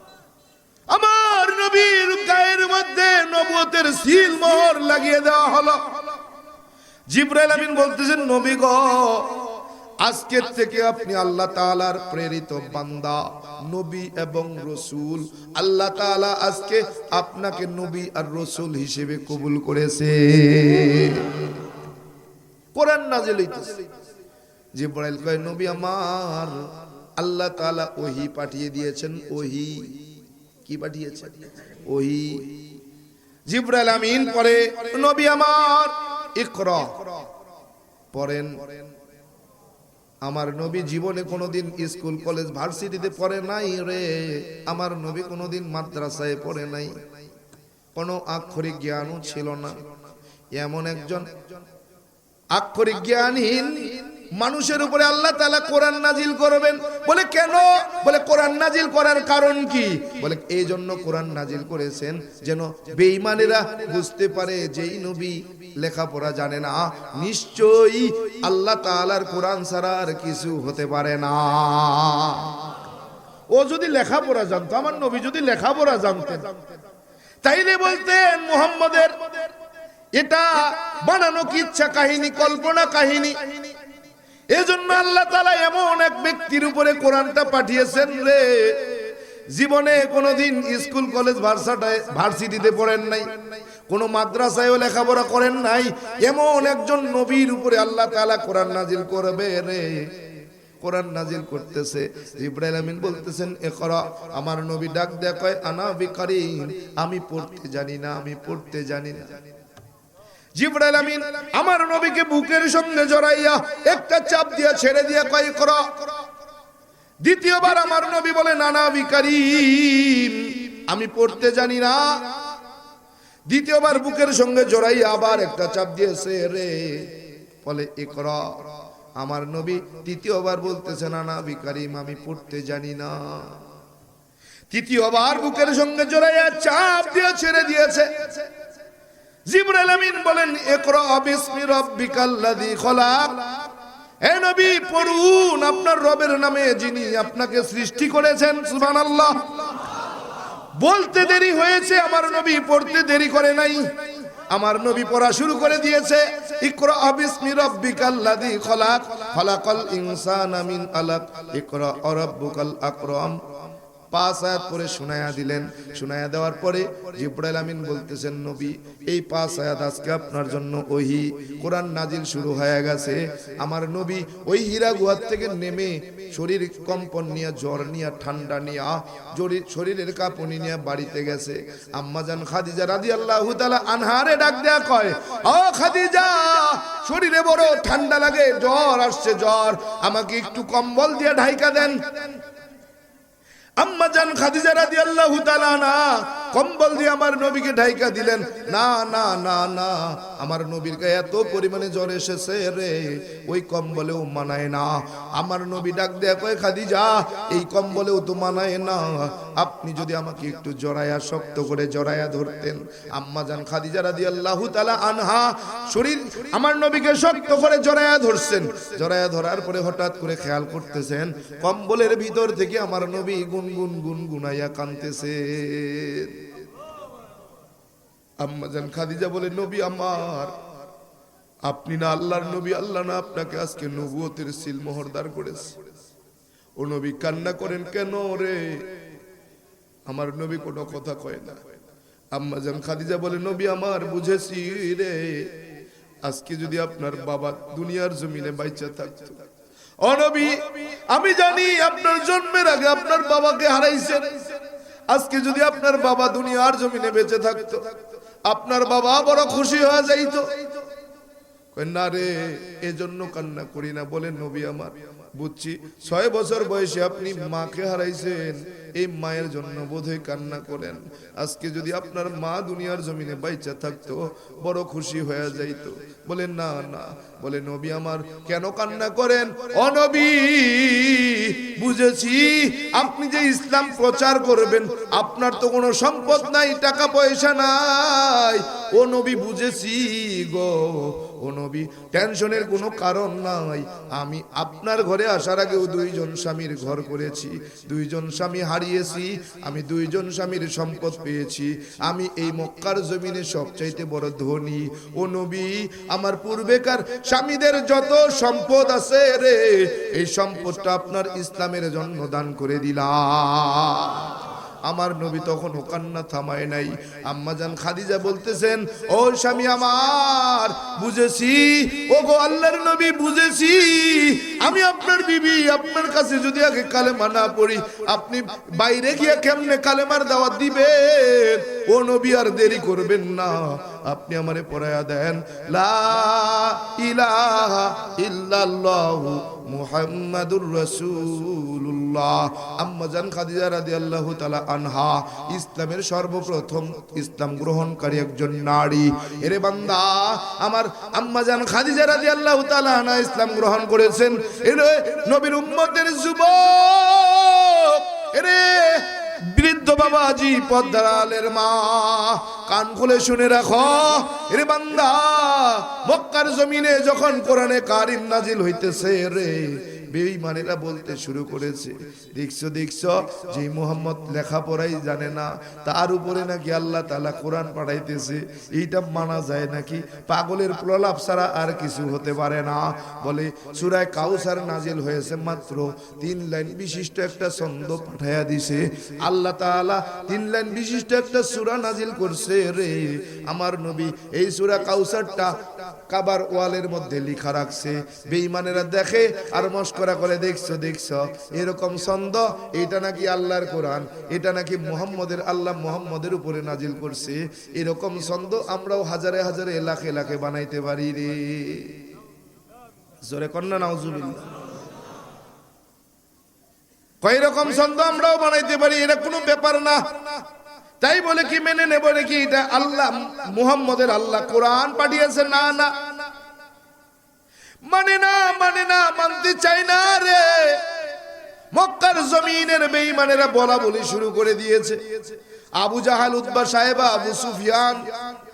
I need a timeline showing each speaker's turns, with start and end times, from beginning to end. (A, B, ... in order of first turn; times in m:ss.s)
0:00.9-0:06.0 A
0:07.1-0:21.7 A
0:22.7-0:23.9 A
0:24.8-0:30.1 A
0:30.6-0:32.7 A
0:33.5-0:37.3 A
0:38.1-0:38.7 A
0:40.2-0:47.0 A
0:48.0-0:49.8 A
0:50.6-0:51.4 A
0:52.5-1:12.9 A
1:13.5-1:16.6 A
1:17.4-1:19.5 A
1:20.1-1:23.7 A
1:24.5-1:49.4 A
1:50.6-1:56.2 A
1:57.2-2:02.5 A
2:03.5-2:13.6 A
2:14.7-2:18.5 A
2:19.5-2:23.7 A
2:24.2-2:30.0 A
2:30.7-2:43.5 A
2:44.1-3:12.4 A
3:13.8-3:46.5 A
3:48.4-3:50.6 A
3:51.6-3:55.8 A
3:56.8-3:59.0 A
4:00.1-4:01.7 A
4:02.3-4:05.7 A
4:06.2-4:09.4 A
4:10.0-4:14.6 A
4:15.1-4:20.7 A
4:21.7-6:52.0 A
6:53.2-6:54.6 A
6:57.2-7:00.4 A
7:01.0-7:06.2 A
7:07.8-7:11.0 A
7:11.7-7:18.3 A